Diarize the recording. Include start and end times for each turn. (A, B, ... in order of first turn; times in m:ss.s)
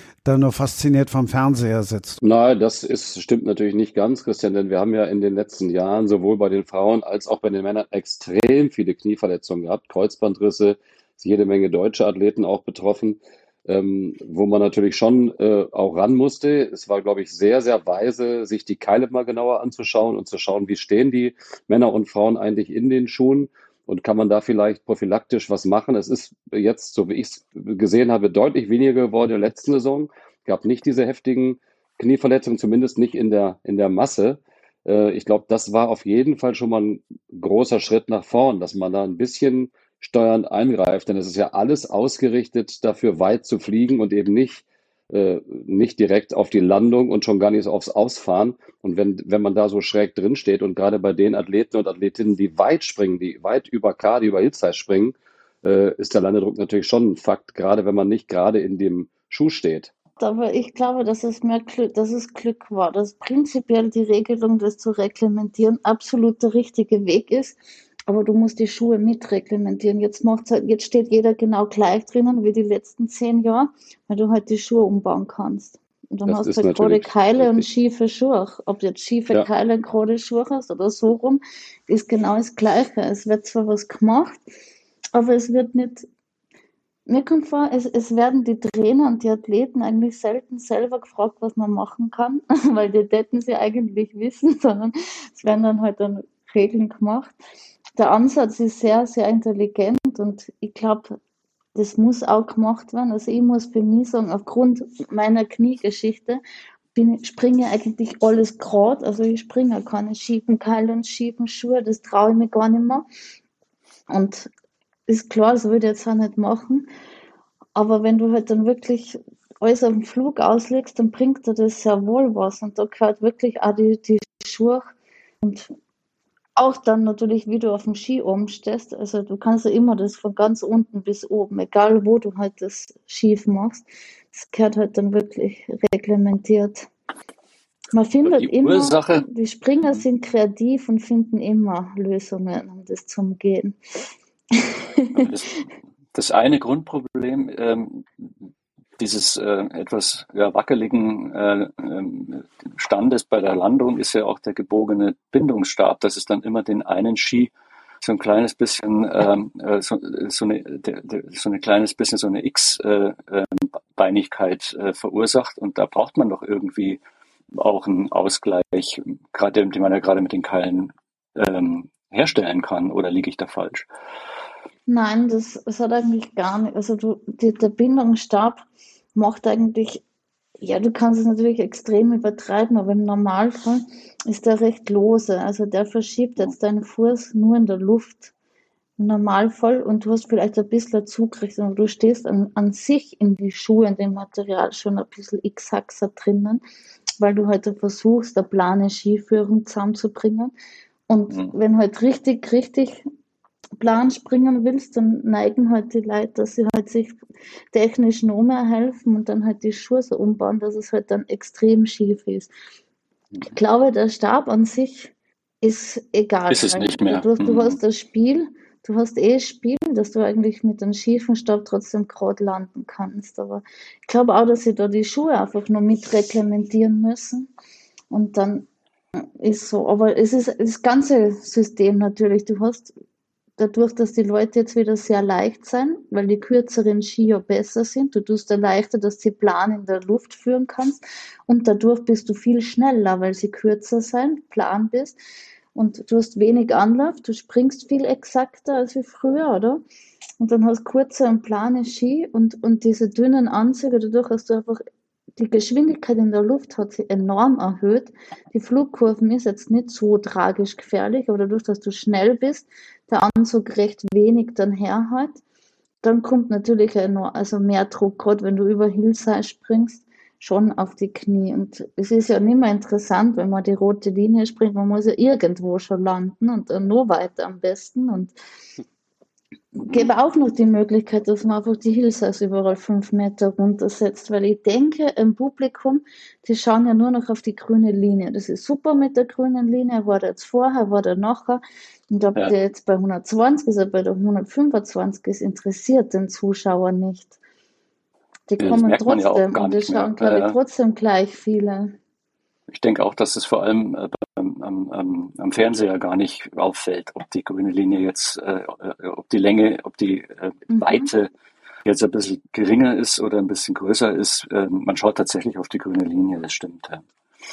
0:00.2-0:02.2 A
0:02.2-0:59.9 B
1:00.2-1:24.4 C
1:16.2-1:17.6 B
1:25.1-1:26.1 C
1:27.1-1:37.3 C
1:38.0-1:41.2 C
1:41.7-1:46.4 C
1:46.9-1:53.0 C
1:54.1-1:54.5 C
1:55.1-1:56.9 C
1:57.7-2:04.8 C
2:05.4-2:05.7 C
2:06.6-2:16.9 C
2:17.9-2:23.8 C
2:18.2-2:19.2 D
2:24.5-2:25.2 C
2:25.2-2:28.3 D
2:29.0-2:47.0 D
2:47.5-2:53.9 D
2:54.9-2:58.6 C
2:59.1-3:00.0 C
3:00.6-3:08.3 C
3:09.0-3:16.6 C
3:17.2-3:20.5 C
3:21.1-3:23.0 C
3:23.8-3:27.2 C
3:27.7-3:32.5 C
3:33.5-3:47.5 C
3:36.5-3:37.8 D
3:48.1-3:52.9 C
3:53.6-4:05.2 C
4:05.7-4:09.8 C
4:10.4-4:14.8 C
4:15.4-4:25.4 C
4:26.0-4:38.3 C
4:39.8-4:57.4 C
4:58.5-5:02.0 C
4:58.6-5:00.6 D
5:02.7-5:11.3 D
5:11.8-5:17.0 D